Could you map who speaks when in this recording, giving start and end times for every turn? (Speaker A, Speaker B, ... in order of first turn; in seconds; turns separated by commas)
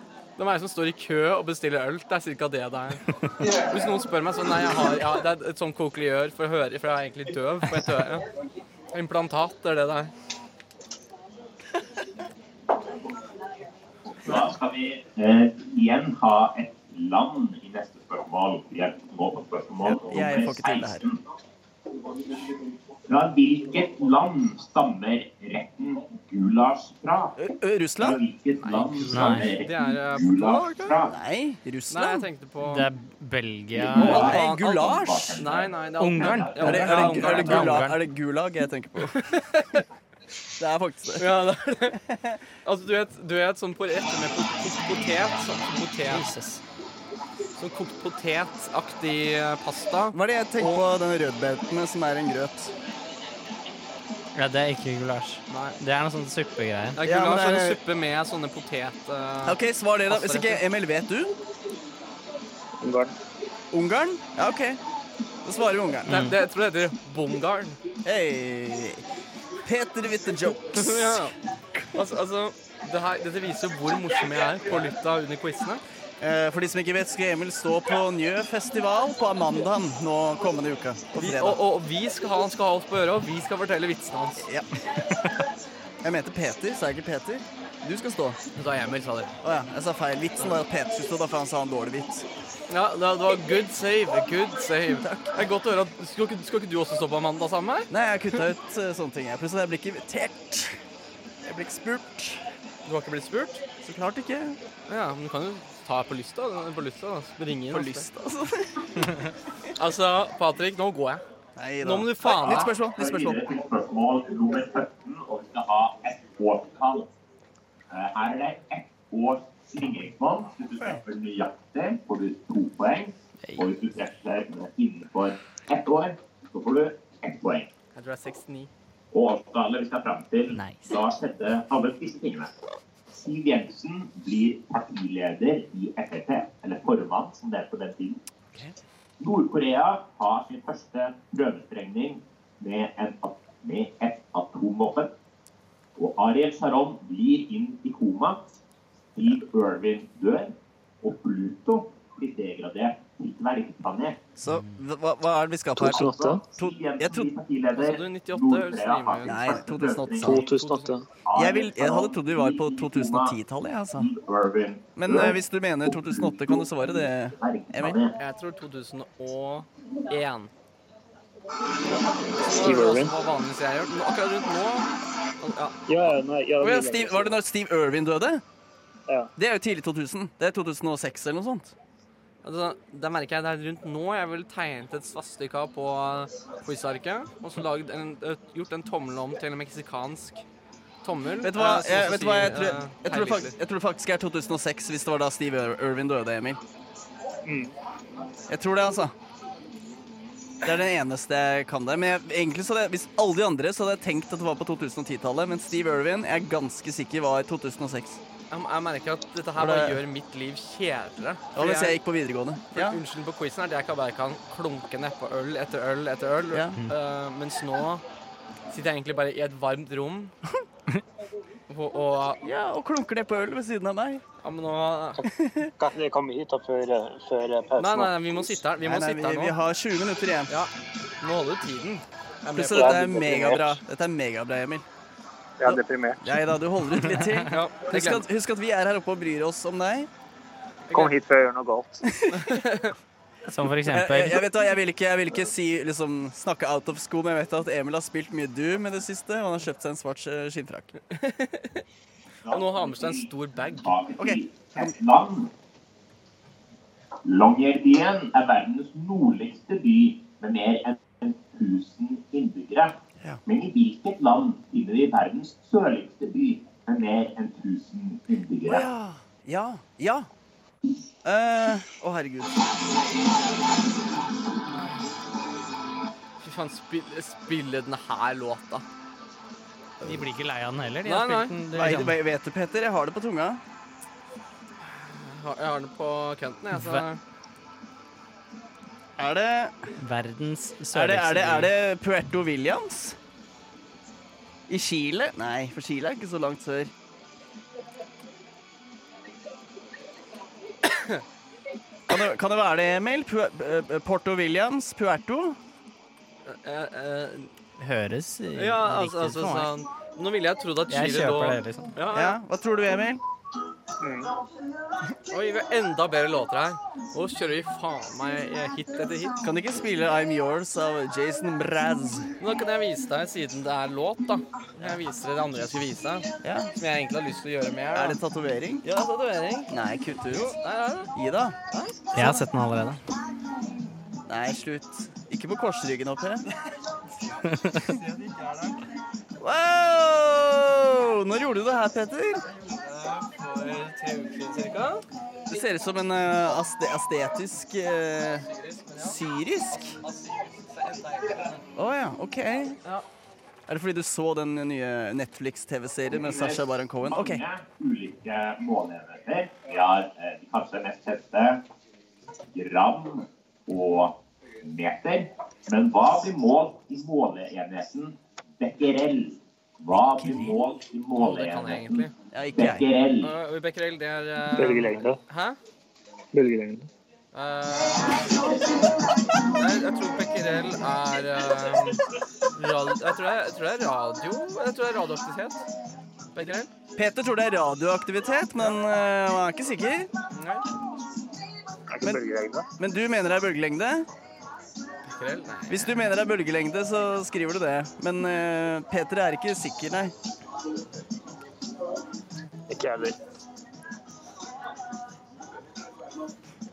Speaker A: 0.4-8.2, Speaker A: 8.9-10.1, Speaker B: 14.0-21.2, Speaker C: 19.8-21.1, Speaker B: 23.1-27.4, Speaker C: 27.4-28.2, Speaker B: 28.0-31.1, Speaker A: 28.6-30.9, Speaker D: 29.0-29.5, Speaker C: 31.1-32.3, Speaker A: 31.9-32.9, Speaker D: 32.6-34.3, Speaker B: 33.7-37.2, Speaker A: 33.9-37.8, Speaker C: 34.0-35.4, Speaker D: 36.0-38.0, Speaker C: 36.6-39.3, Speaker A: 39.0-39.9, Speaker C: 40.6-41.3, Speaker A: 41.2-42.0, Speaker C: 41.9-42.4, Speaker A: 42.6-46.2, Speaker D: 46.1-46.6, Speaker A: 47.6-50.8, Speaker C: 50.1-52.7, Speaker D: 54.3-57.0, Speaker A: 55.5-55.8, Speaker A: 57.0-60.6, Speaker C: 57.0-57.8, Speaker C: 59.4-61.4, Speaker E: 62.8-63.1, Speaker C: 63.7-64.8, Speaker C: 65.4-66.1, Speaker A: 66.0-67.8, Speaker D: 66.1-66.4, Speaker C: 68.0-69.0, Speaker C: 69.6-71.8, Speaker A: 70.7-71.3, Speaker A: 71.9-75.8, Speaker C: 76.2-81.6, Speaker A: 81.2-84.5, Speaker C: 84.4-84.7, Speaker C: 86.0-88.4, Speaker A: 88.5-89.3, Speaker C: 89.4-92.2, Speaker A: 92.7-97.9, Speaker C: 95.0-95.3, Speaker C: 97.9-100.8, Speaker C: 101.4-102.4, Speaker A: 102.8-103.6, Speaker C: 103.8-104.6, Speaker A: 104.9-108.1, Speaker C: 107.7-109.0, Speaker A: 109.7-111.2, Speaker C: 111.5-113.5, Speaker A: 111.8-112.7, Speaker B: 112.4-117.1, Speaker B: 117.9-127.7, Speaker A: 127.9-128.7, Speaker B: 129.1-132.5, Speaker D: 130.5-131.0, Speaker B: 133.1-138.2, Speaker B: 139.2-145.1, Speaker B: 145.9-148.4, Speaker B: 149.1-154.2, Speaker C: 154.4-157.3, Speaker D: 154.5-154.8, Speaker E: 155.8-156.4, Speaker B: 155.8-160.5, Speaker A: 157.7-159.5, Speaker C: 159.2-160.5, Speaker E: 160.2-161.1, Speaker A: 160.4-160.9, Speaker B: 161.2-163.4, Speaker C: 161.3-164.1, Speaker B: 163.9-168.2, Speaker C: 164.9-168.0, Speaker A: 168.2-170.5, Speaker A: 172.4-174.9, Speaker E: 172.4-173.1, Speaker A: 175.4-175.8, Speaker E: 175.9-177.4, Speaker C: 176.6-178.4, Speaker C: 179.3-181.7, Speaker A: 182.4-190.4, Speaker A: 191.0-193.5, Speaker C: 191.4-196.6, Speaker E: 197.4-197.7, Speaker C: 198.5-199.1, Speaker C: 200.6-208.2, Speaker A: 208.5-212.0, Speaker C: 209.6-210.0, Speaker C: 211.5-213.0, Speaker A: 212.7-218.0, Speaker C: 216.5-216.8, Speaker A: 218.7-220.3, Speaker A: 221.7-222.4, Speaker C: 222.4-224.2, Speaker A: 224.4-225.2, Speaker E: 225.2-228.6, Speaker C: 225.3-225.7, Speaker A: 227.8-229.6, Speaker C: 228.8-230.5, Speaker A: 230.5-233.1, Speaker C: 232.5-234.8, Speaker E: 232.7-233.8, Speaker E: 235.6-236.2, Speaker C: 235.6-240.1, Speaker A: 237.5-238.2, Speaker A: 240.9-241.2, Speaker E: 240.9-242.0, Speaker C: 242.2-242.5, Speaker A: 242.3-242.9, Speaker D: 243.4-244.4, Speaker C: 243.8-250.9, Speaker A: 251.1-251.8, Speaker B: 252.4-255.5, Speaker A: 252.5-253.9, Speaker C: 254.2-254.9, Speaker B: 257.2-268.9, Speaker C: 268.6-270.3, Speaker C: 271.2-272.6, Speaker A: 276.4-278.8, Speaker D: 280.0-282.2, Speaker A: 281.0-281.6, Speaker C: 281.7-283.6, Speaker A: 284.8-287.2, Speaker D: 286.8-287.0, Speaker C: 289.2-289.8, Speaker D: 290.0-291.7, Speaker C: 290.9-293.2, Speaker C: 294.7-296.9, Speaker A: 300.8-301.2, Speaker C: 302.1-305.6, Speaker A: 306.4-307.5, Speaker D: 307.8-309.7, Speaker A: 308.6-312.4, Speaker D: 310.9-311.9, Speaker C: 312.1-313.2, Speaker E: 314.0-314.3, Speaker A: 315.3-319.4, Speaker C: 319.4-322.3, Speaker A: 322.4-328.2, Speaker C: 326.4-326.7, Speaker C: 327.9-328.8, Speaker A: 328.8-329.7, Speaker C: 329.7-330.5, Speaker A: 330.3-331.1, Speaker C: 331.1-331.6, Speaker C: 332.1-332.4, Speaker D: 332.1-333.0, Speaker C: 334.3-336.4, Speaker D: 337.6-337.8, Speaker A: 337.7-338.8, Speaker C: 339.4-342.4, Speaker A: 342.5-345.0, Speaker C: 345.5-348.5, Speaker A: 348.4-349.2, Speaker C: 349.0-350.0, Speaker A: 349.7-351.6, Speaker C: 351.8-352.8, Speaker C: 353.7-357.4, Speaker B: 356.1-361.6, Speaker B: 362.5-373.3, Speaker C: 369.9-370.6, Speaker A: 371.1-372.1, Speaker C: 372.3-372.9, Speaker A: 373.2-375.6, Speaker E: 374.6-375.2, Speaker E: 376.3-376.9, Speaker A: 377.3-378.4, Speaker A: 379.5-382.0, Speaker A: 382.5-385.6, Speaker A: 386.3-386.7, Speaker C: 386.9-390.1, Speaker A: 390.3-390.7, Speaker E: 391.9-392.7, Speaker C: 392.8-394.1, Speaker A: 395.0-395.9, Speaker C: 395.7-400.1, Speaker E: 402.7-403.2